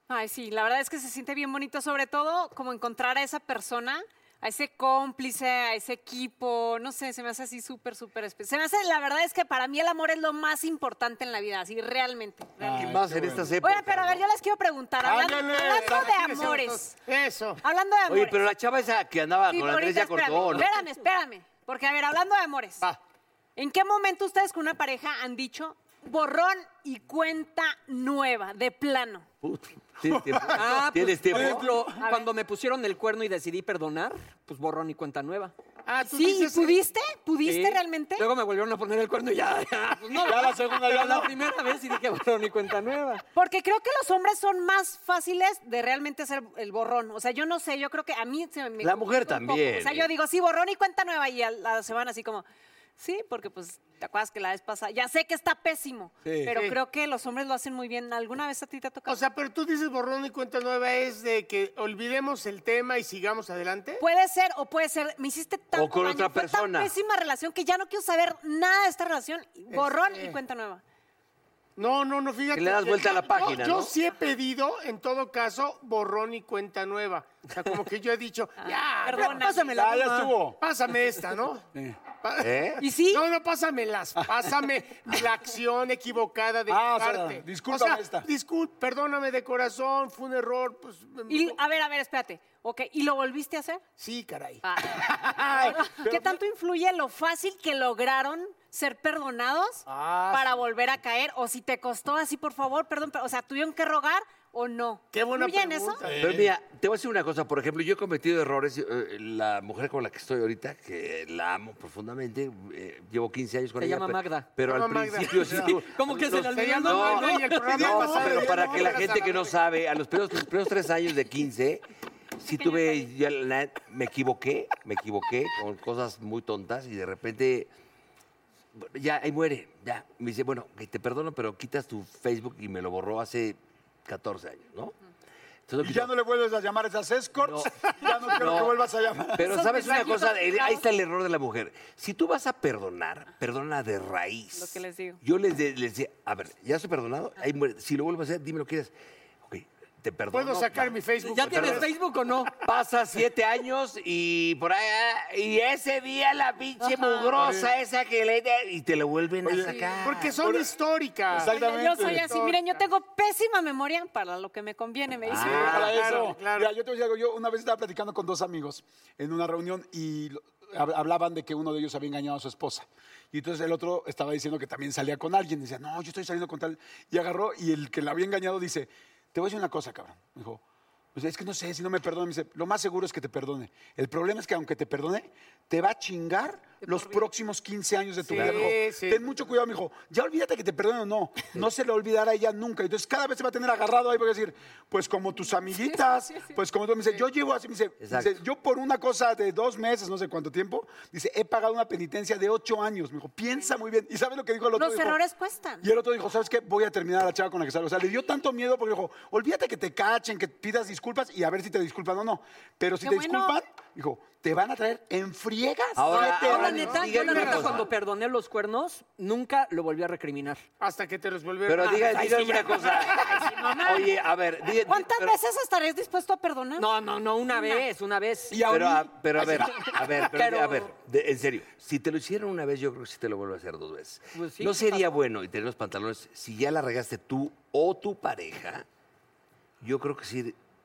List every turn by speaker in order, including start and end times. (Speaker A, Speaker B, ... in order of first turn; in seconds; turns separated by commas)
Speaker A: 0.1-13.0, Speaker B: 12.6-13.6, Speaker C: 12.6-14.2, Speaker A: 13.6-17.0, Speaker B: 15.0-16.1, Speaker D: 15.1-17.6, Speaker A: 17.6-18.4, Speaker C: 18.1-20.7, Speaker A: 19.5-22.9, Speaker A: 23.6-29.3, Speaker C: 29.4-31.7, Speaker B: 30.1-32.0, Speaker E: 30.5-35.5, Speaker A: 32.0-32.3, Speaker D: 35.9-36.8, Speaker A: 36.0-38.3, Speaker E: 37.4-43.2, Speaker B: 40.2-41.3, Speaker A: 43.4-52.5, Speaker C: 48.8-50.1, Speaker A: 53.0-59.2, Speaker B: 56.3-56.5, Speaker D: 56.5-56.8, Speaker D: 59.1-64.0, Speaker A: 64.0-70.8, Speaker C: 65.7-66.9, Speaker D: 69.7-70.4, Speaker D: 71.8-79.4, Speaker C: 72.5-73.9, Speaker A: 78.6-80.1, Speaker E: 79.1-80.3, Speaker B: 79.6-80.6, Speaker D: 80.6-81.7, Speaker D: 82.2-91.6, Speaker C: 82.4-82.8, Speaker A: 82.8-83.3, Speaker B: 86.7-88.3, Speaker A: 91.3-93.8, Speaker D: 94.0-94.6, Speaker A: 94.6-106.0, Speaker B: 95.4-96.4, Speaker D: 99.9-100.6, Speaker D: 105.1-106.3, Speaker B: 106.0-106.5, Speaker C: 106.2-121.8, Speaker E: 113.8-114.5, Speaker D: 114.6-115.6, Speaker B: 115.4-115.8, Speaker E: 115.6-117.8, Speaker D: 116.4-119.5, Speaker B: 117.7-119.5, Speaker C: 122.4-127.7, Speaker A: 122.5-123.1, Speaker C: 128.8-134.9, Speaker C: 135.7-136.1, Speaker B: 135.8-139.6, Speaker C: 137.4-138.8, Speaker C: 139.3-148.9, Speaker A: 139.4-140.8, Speaker D: 139.8-140.2, Speaker A: 144.6-145.2, Speaker C: 149.5-151.9, Speaker D: 150.3-151.9, Speaker E: 151.3-152.5, Speaker C: 152.6-160.4, Speaker A: 156.8-157.3, Speaker B: 157.4-157.8, Speaker B: 159.4-160.7, Speaker D: 160.0-162.8, Speaker B: 161.3-162.3, Speaker A: 161.4-165.8, Speaker C: 165.3-166.0, Speaker B: 165.3-180.6, Speaker D: 165.5-166.7, Speaker B: 181.2-205.2, Speaker D: 188.2-189.2, Speaker C: 188.3-188.8, Speaker A: 195.8-196.6, Speaker C: 198.0-198.3, Speaker A: 204.8-205.9, Speaker B: 205.8-216.6, Speaker A: 213.0-213.6, Speaker C: 216.0-217.9, Speaker A: 216.1-217.7, Speaker E: 216.2-220.6, Speaker D: 217.0-217.8, Speaker D: 220.8-223.1, Speaker C: 221.7-225.3, Speaker A: 223.4-224.2, Speaker A: 224.8-226.9, Speaker E: 226.8-228.7, Speaker A: 227.5-227.9, Speaker B: 228.5-230.2, Speaker C: 228.7-238.9, Speaker E: 230.3-230.9, Speaker E: 234.3-235.2, Speaker C: 239.8-240.6